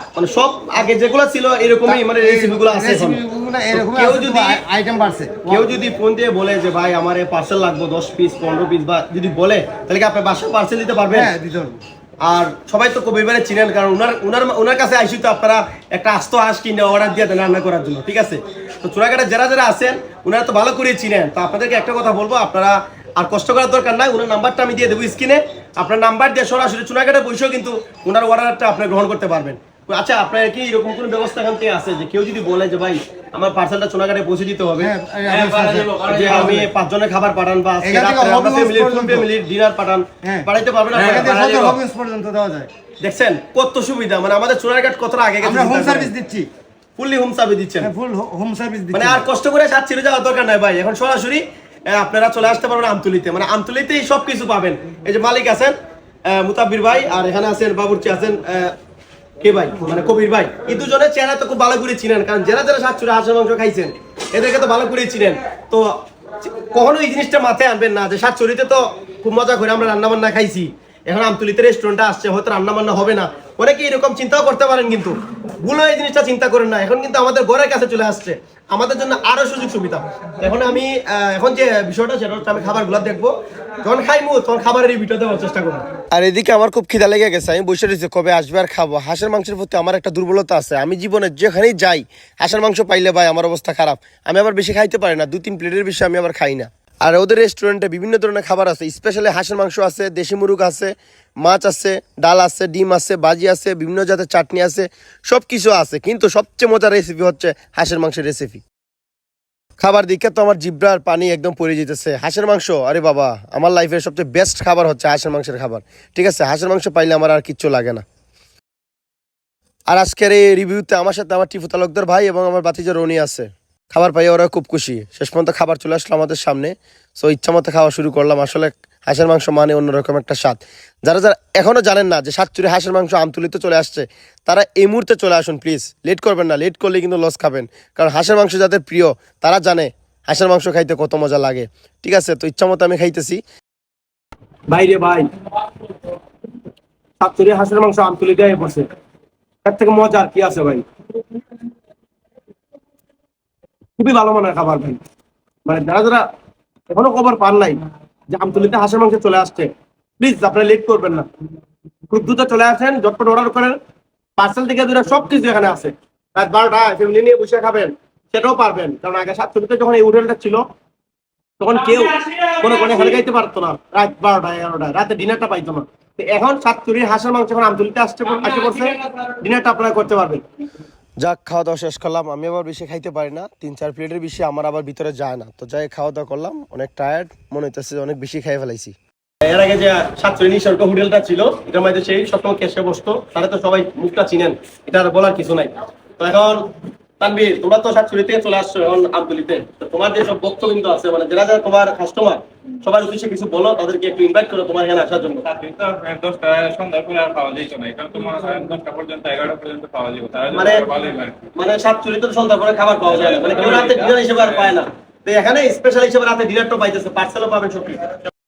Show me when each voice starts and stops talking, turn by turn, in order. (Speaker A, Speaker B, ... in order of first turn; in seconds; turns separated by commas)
Speaker A: 0.2-4.6, Speaker B: 1.9-5.7, Speaker A: 5.5-11.3, Speaker B: 11.1-11.8, Speaker A: 12.2-34.9, Speaker B: 34.8-36.7, Speaker C: 35.3-36.5, Speaker A: 36.1-41.8, Speaker B: 37.8-39.3, Speaker B: 40.2-42.7, Speaker A: 43.0-46.1, Speaker B: 45.4-46.5, Speaker A: 47.0-47.9, Speaker B: 47.8-49.3, Speaker A: 48.9-55.7, Speaker A: 56.3-58.7, Speaker A: 59.4-108.6, Speaker A: 109.8-118.0, Speaker A: 119.9-143.4, Speaker A: 144.7-145.3, Speaker A: 147.2-148.9, Speaker A: 149.7-150.8, Speaker A: 154.0-155.0, Speaker A: 155.7-156.3, Speaker A: 156.9-157.8, Speaker A: 158.3-161.3, Speaker A: 162.1-163.8, Speaker A: 164.4-170.6, Speaker A: 171.6-180.4, Speaker A: 181.2-205.5, Speaker C: 205.4-211.5, Speaker A: 210.5-210.9, Speaker A: 211.6-218.1, Speaker C: 213.1-214.7